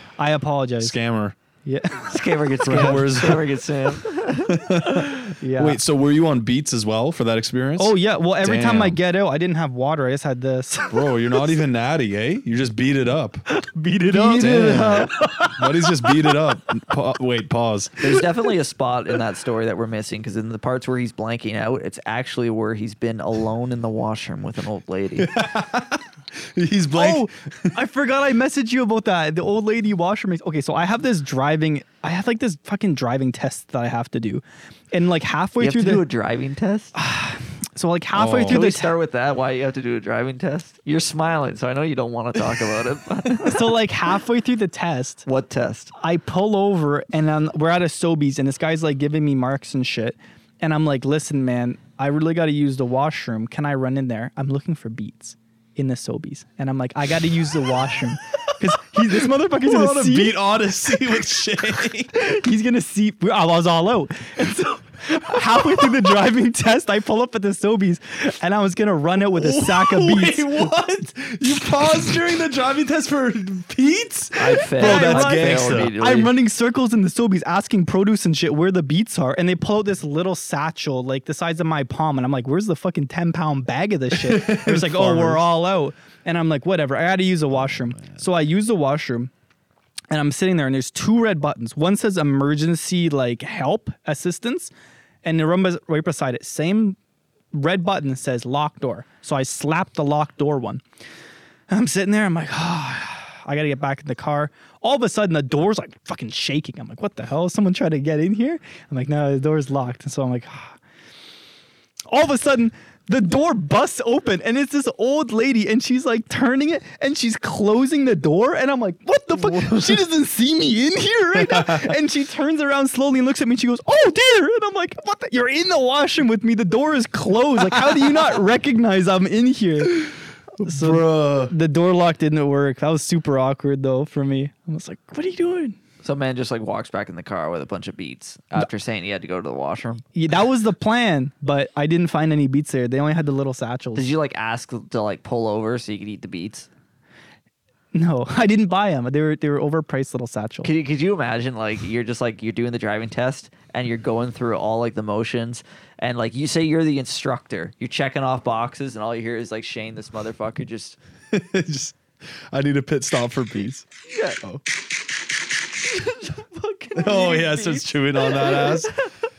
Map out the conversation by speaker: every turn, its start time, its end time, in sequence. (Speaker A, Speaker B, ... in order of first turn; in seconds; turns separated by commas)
Speaker A: 0.2-1.0, Speaker B: 0.8-1.4, Speaker A: 1.6-3.0, Speaker C: 2.1-4.6, Speaker B: 2.6-3.5, Speaker B: 4.4-9.0, Speaker A: 5.4-5.8, Speaker A: 7.8-11.5, Speaker B: 10.9-13.4, Speaker A: 13.5-16.2, Speaker B: 14.1-18.2, Speaker C: 18.0-25.3, Speaker B: 25.2-27.7, Speaker A: 26.9-36.0, Speaker C: 35.6-36.9, Speaker A: 37.0-38.9, Speaker B: 38.1-38.6, Speaker C: 38.5-43.7, Speaker A: 43.4-45.2, Speaker C: 45.3-45.9, Speaker A: 46.0-60.4, Speaker B: 58.9-62.1, Speaker A: 62.1-70.6, Speaker B: 69.3-75.9, Speaker C: 74.4-76.3, Speaker A: 74.8-89.3, Speaker B: 84.1-85.4, Speaker A: 90.1-94.7, Speaker A: 95.2-97.0, Speaker A: 97.5-100.8, Speaker A: 101.7-110.8, Speaker A: 112.1-135.8, Speaker B: 119.3-120.0, Speaker B: 121.3-121.9, Speaker B: 130.6-131.5, Speaker C: 136.0-140.0, Speaker A: 140.2-144.1, Speaker C: 144.0-146.7, Speaker A: 147.9-150.7, Speaker C: 150.6-161.0, Speaker B: 161.3-162.0, Speaker B: 162.5-163.9, Speaker C: 164.1-164.4, Speaker C: 165.9-169.0, Speaker B: 167.0-168.9